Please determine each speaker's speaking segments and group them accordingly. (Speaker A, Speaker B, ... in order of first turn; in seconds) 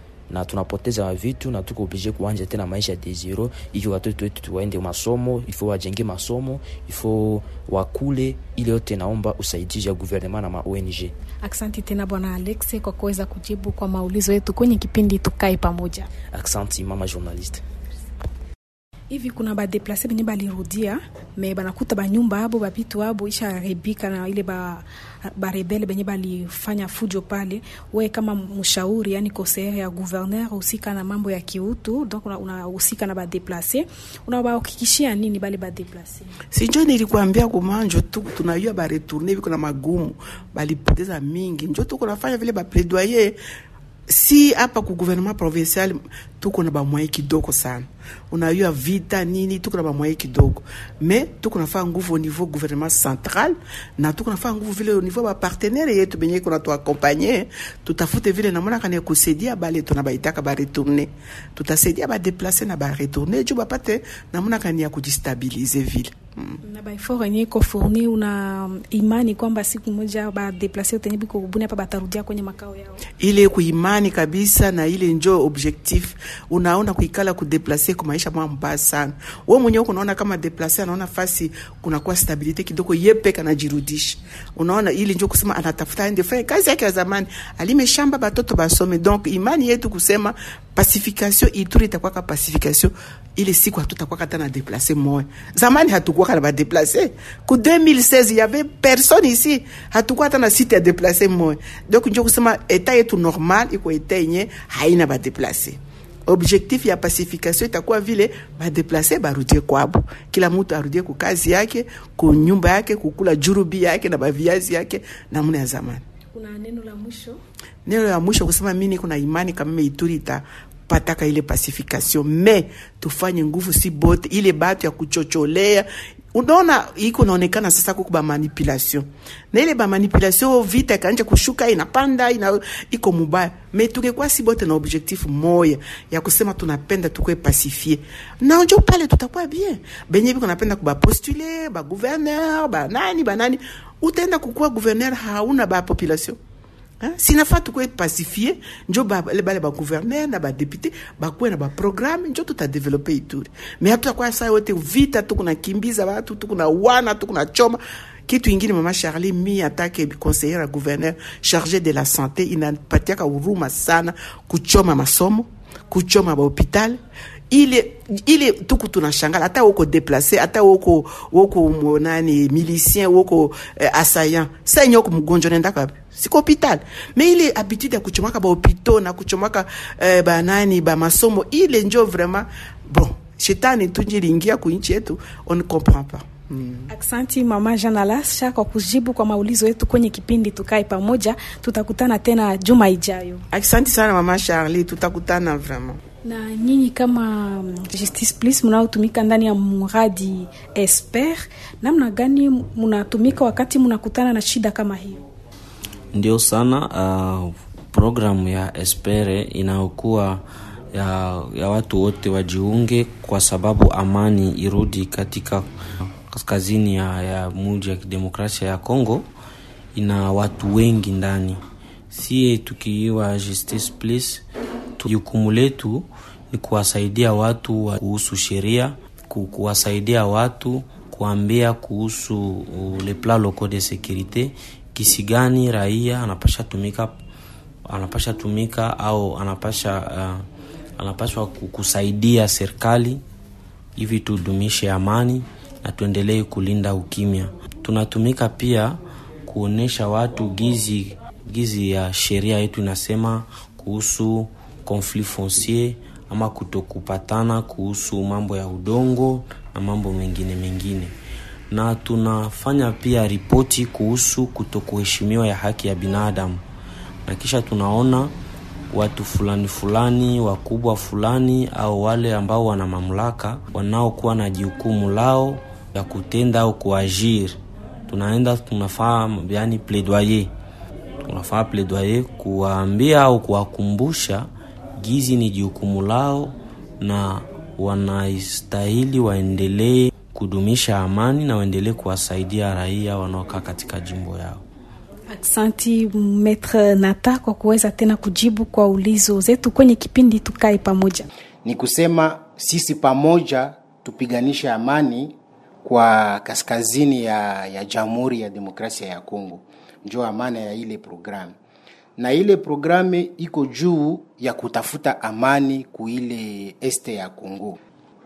Speaker A: 0.3-11.1, 16.3-17.6
Speaker B: 11.4-16.1, 19.1-36.3, 66.6-73.0, 116.3-117.4, 186.9-193.4, 196.2-205.2, 295.3-301.3
Speaker C: 36.5-43.4, 44.1-66.6, 73.2-116.0, 117.9-146.4, 147.0-186.9, 193.5-196.0
Speaker D: 206.1-210.4, 210.9-215.7, 216.3-219.3, 219.9-224.4, 225.0-237.2, 237.9-240.4, 241.0-243.2, 244.0-261.1, 261.7-266.6, 267.3-268.3, 268.9-280.5, 281.2-294.6
Speaker E: 301.6-311.6, 312.2-317.8